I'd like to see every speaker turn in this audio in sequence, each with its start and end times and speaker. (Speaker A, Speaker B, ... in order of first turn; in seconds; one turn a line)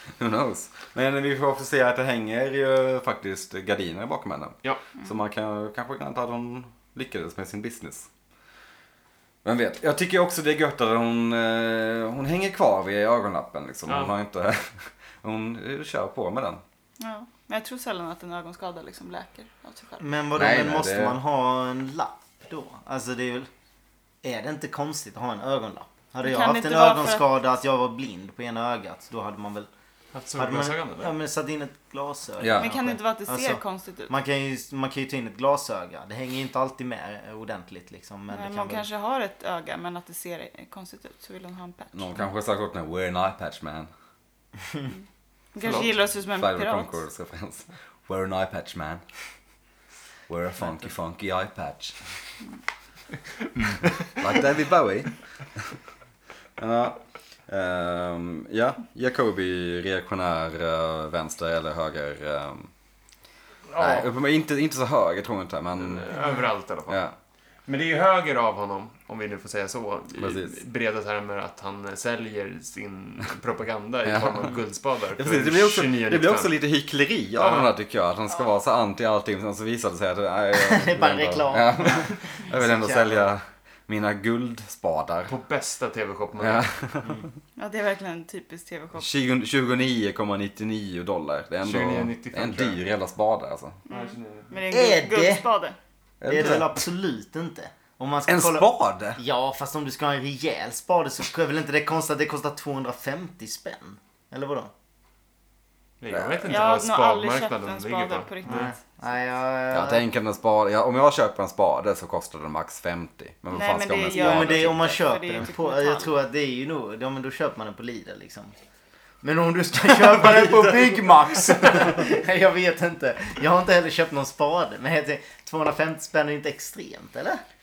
Speaker A: 0.2-8.1
Speaker A: 9.4-16.6
Speaker B: 13.9-14.1
Speaker C: 17.0-20.0
Speaker D: 20.0-23.5
Speaker A: 20.4-21.2
Speaker D: 24.2-29.7
Speaker C: 26.2-27.3
Speaker B: 30.1-31.1
Speaker D: 30.4-38.9
Speaker A: 32.4-32.7
Speaker C: 32.6-34.1
Speaker C: 38.3-42.2
Speaker A: 41.9-43.9
Speaker C: 45.5-46.9
Speaker B: 45.6-45.9
Speaker A: 46.3-49.0
Speaker A: 50.3-52.0
Speaker B: 53.6-54.0
Speaker A: 54.2-55.7
Speaker A: 56.6-62.7
Speaker B: 63.7-64.1
Speaker A: 63.8-66.1
Speaker B: 65.8-67.0
Speaker A: 66.9-67.2
Speaker B: 67.7-76.5
Speaker A: 70.2-70.6
Speaker A: 74.0-74.5
Speaker A: 75.2-85.3
Speaker B: 77.4-77.7
Speaker D: 80.5-83.3
Speaker B: 85.3-86.7
Speaker A: 86.4-87.2
Speaker C: 87.6-89.1
Speaker A: 89.0-93.8
Speaker B: 91.6-92.8
Speaker C: 93.9-95.8
Speaker B: 93.9-94.5
Speaker D: 94.7-95.5
Speaker A: 96.2-96.8
Speaker D: 96.3-104.7
Speaker A: 98.3-99.2
Speaker B: 106.0-108.7
Speaker A: 106.1-106.6
Speaker C: 106.5-108.8
Speaker D: 108.5-110.0
Speaker A: 109.7-114.8
Speaker C: 113.5-116.1
Speaker D: 114.1-118.5
Speaker D: 119.2-127.4